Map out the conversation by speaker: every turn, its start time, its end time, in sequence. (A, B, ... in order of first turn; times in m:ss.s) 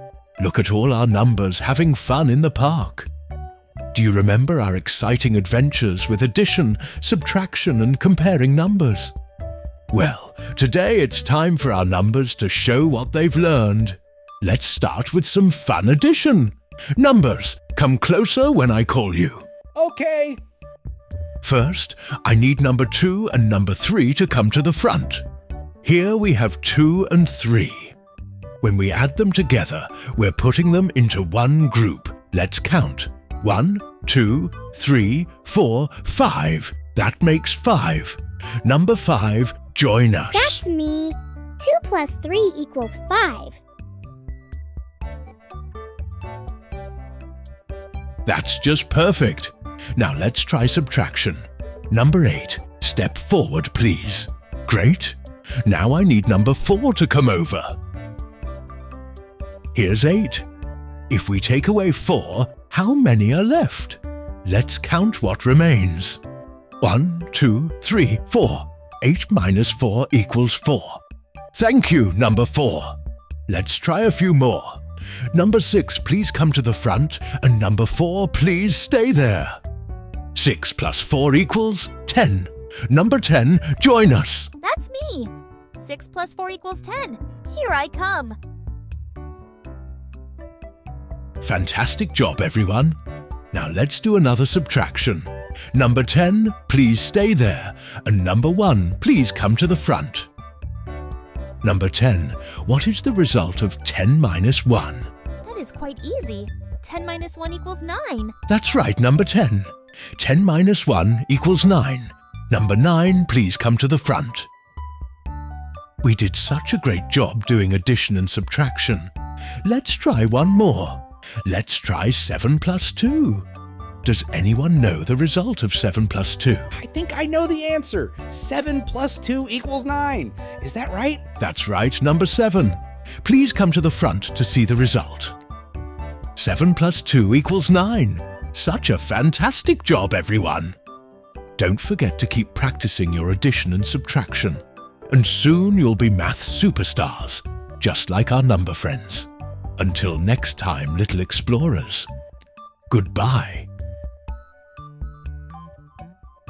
0:00.4-0:03.1 A
0:03.9-0:09.1 A
0:09.9-0:19.4 A
0:19.8-0:20.4 B
0:21.4-0:25.2 A
0:25.8-0:27.9 A
0:28.6-0:40.6 A
0:40.3-0:43.6 C
0:48.2-0:57.8 A
0:59.7-1:00.4 A
1:01.1-1:06.2 A
1:06.8-1:11.0 A
1:11.5-1:14.8 A
1:15.3-1:19.6 A
1:20.3-1:24.5 A
1:24.6-1:28.4 D
1:31.4-1:33.0 A
1:33.5-1:40.3 A
1:41.6-1:45.1 A
1:45.4-1:48.3 D
1:48.5-1:54.5 A
1:56.0-1:59.1 A
1:59.6-2:03.5 A
2:04.0-2:06.7 A
2:06.7-2:11.2 B
2:11.4-2:15.4 A
2:16.4-2:20.8 A
2:21.6-2:32.1 A
2:32.9-2:33.7 A